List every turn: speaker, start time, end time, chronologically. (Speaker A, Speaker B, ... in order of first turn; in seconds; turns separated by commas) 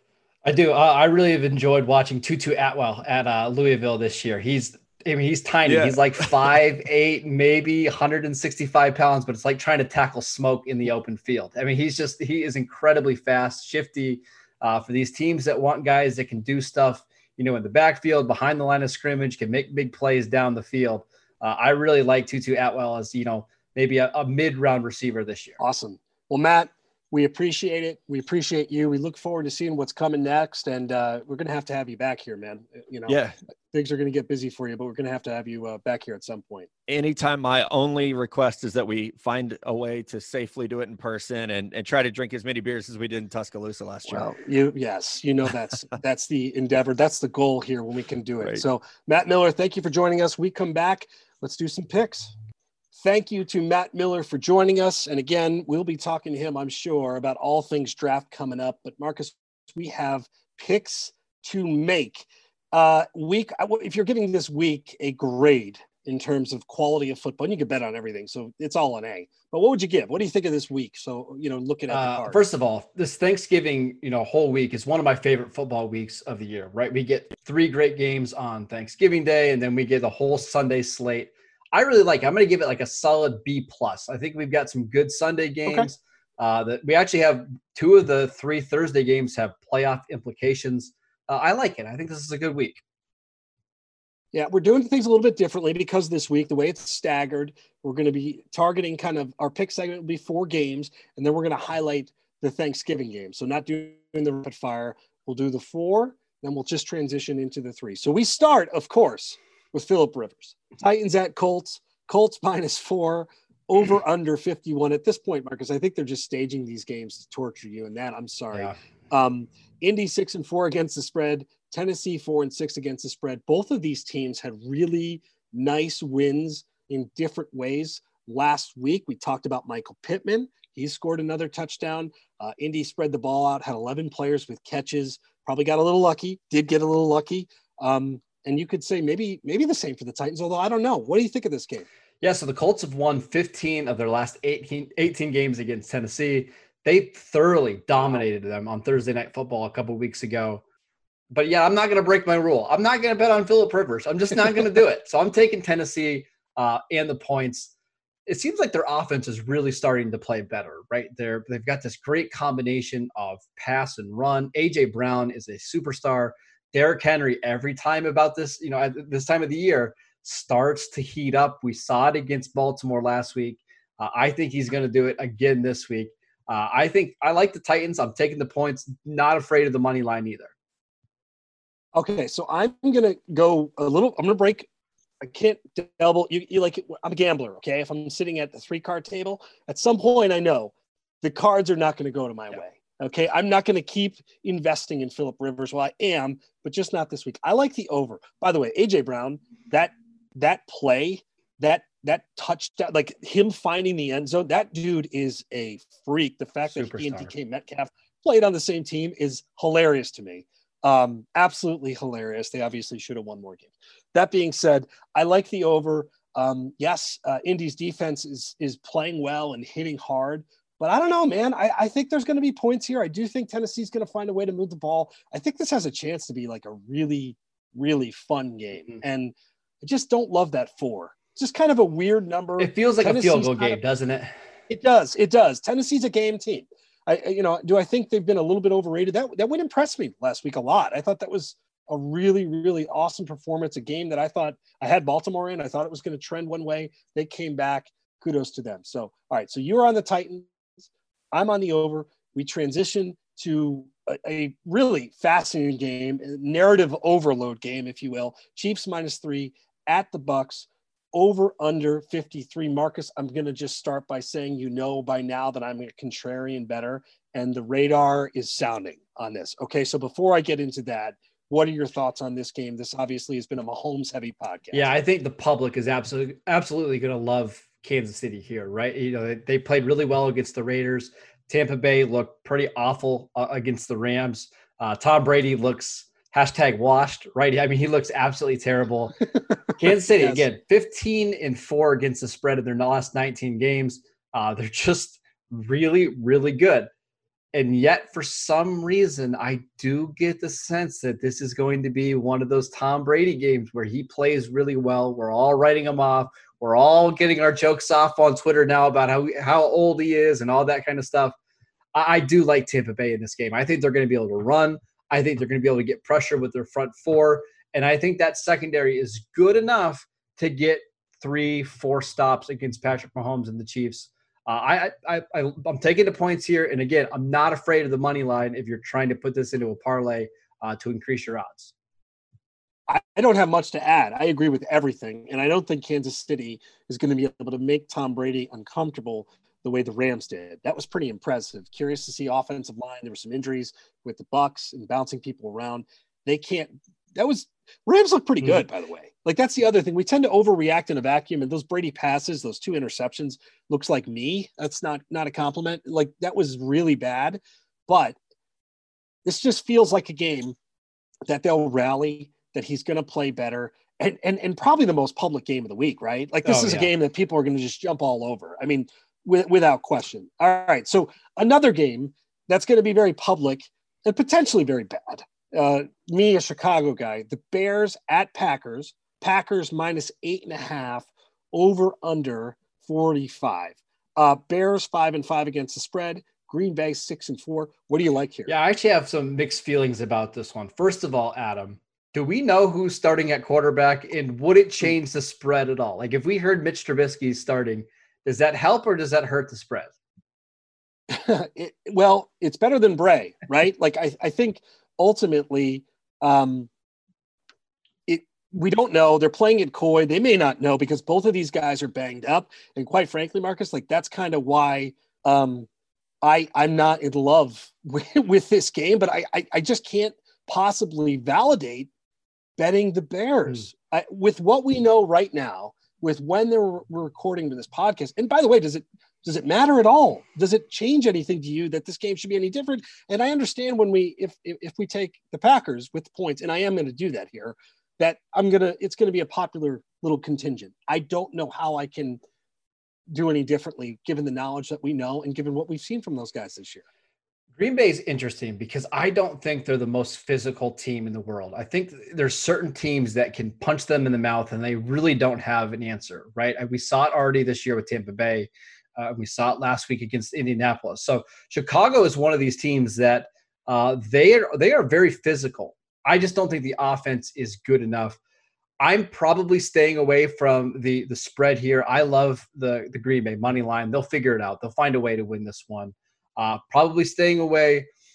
Speaker A: 0.5-25.6, Speaker B: 5.7-6.3, Speaker C: 25.6-33.2, Speaker B: 33.1-33.4, Speaker C: 33.7-36.7, Speaker B: 36.9-44.3, Speaker C: 44.1-52.3, Speaker C: 53.0-72.4, Speaker A: 71.9-92.8, Speaker C: 94.3-141.9, Speaker A: 142.2-150.6, Speaker A: 151.3-157.7, Speaker A: 158.3-180.5, Speaker C: 181.9-184.7, Speaker C: 185.2-233.8, Speaker A: 206.8-207.3, Speaker A: 232.6-234.3, Speaker C: 234.7-250.5, Speaker C: 251.3-275.0, Speaker A: 274.7-289.2, Speaker A: 289.8-296.9, Speaker C: 290.2-290.5, Speaker A: 297.5-311.4, Speaker A: 311.9-331.7, Speaker C: 332.9-358.2, Speaker C: 359.2-360.6, Speaker C: 361.3-388.5, Speaker A: 366.4-366.9, Speaker A: 388.5-399.9, Speaker C: 401.1-406.7, Speaker C: 408.1-415.7, Speaker C: 416.2-421.9, Speaker C: 422.6-442.2, Speaker C: 443.1-446.8, Speaker A: 447.6-468.2, Speaker A: 468.8-477.9